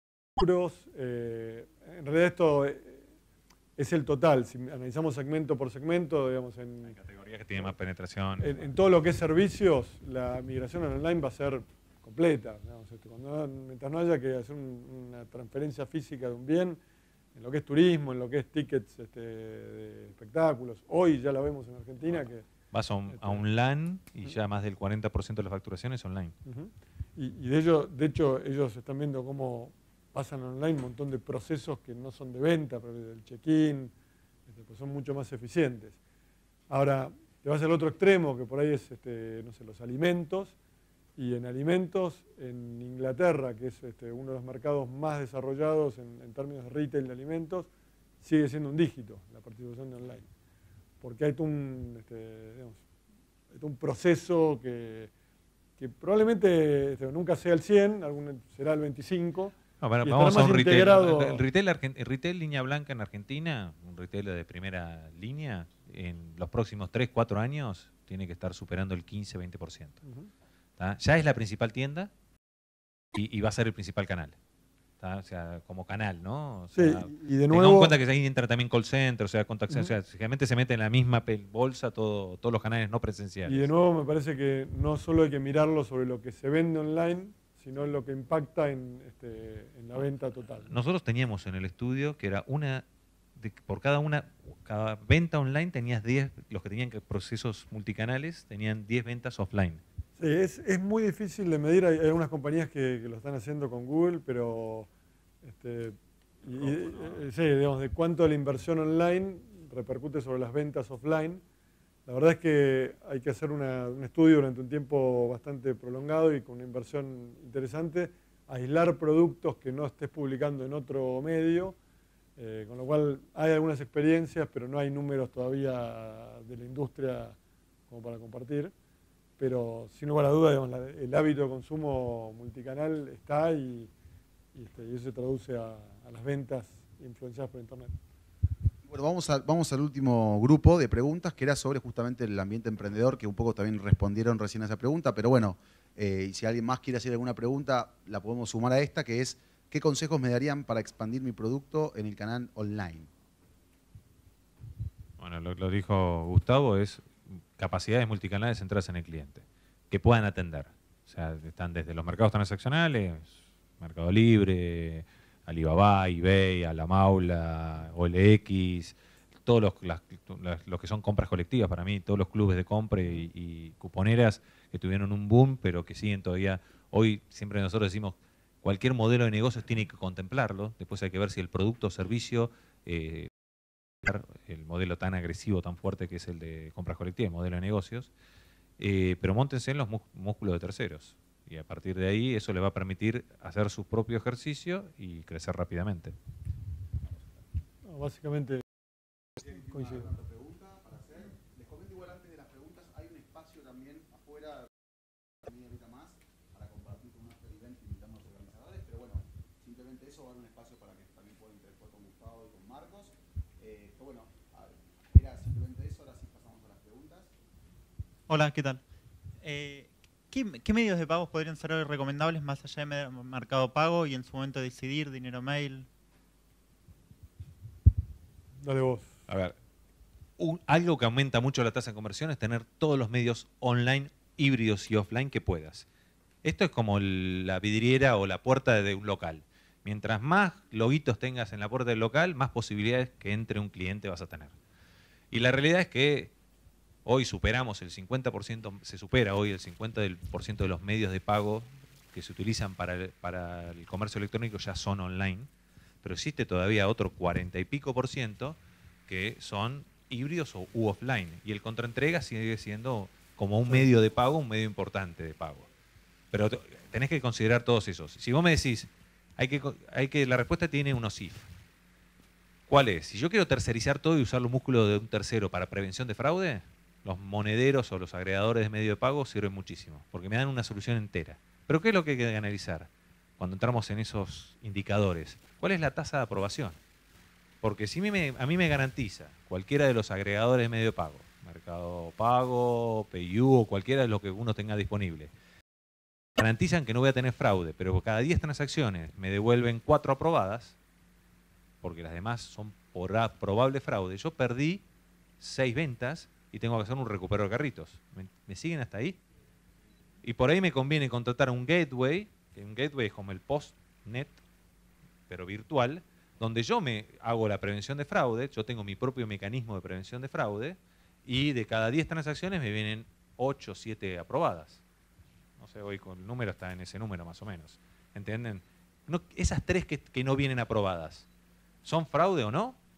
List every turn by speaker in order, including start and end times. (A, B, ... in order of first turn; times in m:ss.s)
0:00.4-0:03.1 A
0:03.8-0:07.0 A
0:06.9-0:08.6 B
0:08.4-0:16.8 A
0:17.4-0:22.5 A
0:22.1-0:26.4 B
0:23.1-0:23.4 A
0:26.5-0:33.9 A
0:34.5-0:36.0 A
0:36.7-0:40.6 A
0:41.2-0:47.7 A
0:48.2-0:50.3 A
0:51.0-0:52.8 A
0:53.5-0:55.1 A
0:55.8-1:01.4 A
0:59.8-1:10.0 B
1:10.0-1:10.3 A
1:10.8-1:12.1 B
1:13.1-1:14.4 B
1:15.0-1:23.7 B
1:16.7-1:18.0 A
1:23.4-1:30.7 A
1:30.7-1:32.8 B
1:33.4-1:39.8 B
1:40.2-1:44.9 A
1:45.4-1:51.4 A
1:46.5-1:47.2 B
1:52.1-2:01.8 A
2:02.4-2:07.4 A
2:07.9-2:08.7 A
2:09.4-2:13.9 A
2:14.5-2:18.0 A
2:18.8-2:33.1 C
2:35.2-3:03.3 B
3:04.0-3:08.1 B
3:08.8-3:16.2 B
3:17.8-3:18.6 A
3:19.5-3:24.7 C
3:19.7-3:20.1 A
3:25.4-3:37.3 C
3:38.3-3:38.8 D
3:39.4-3:45.9 D
3:48.6-3:49.1 A
3:49.3-3:49.6 B
3:50.4-3:55.9 B
3:56.4-4:04.5 B
4:05.3-4:06.3 B
4:07.1-4:15.5 B
4:16.0-4:25.7 B
4:26.3-4:31.5 B
4:32.7-4:46.8 B
4:47.6-4:55.3 B
4:56.4-5:00.8 B
5:01.8-5:04.8 B
5:05.4-5:09.2 B
5:10.2-5:14.4 B
5:15.3-5:24.8 B
5:25.6-5:31.3 B
5:31.8-5:32.8 B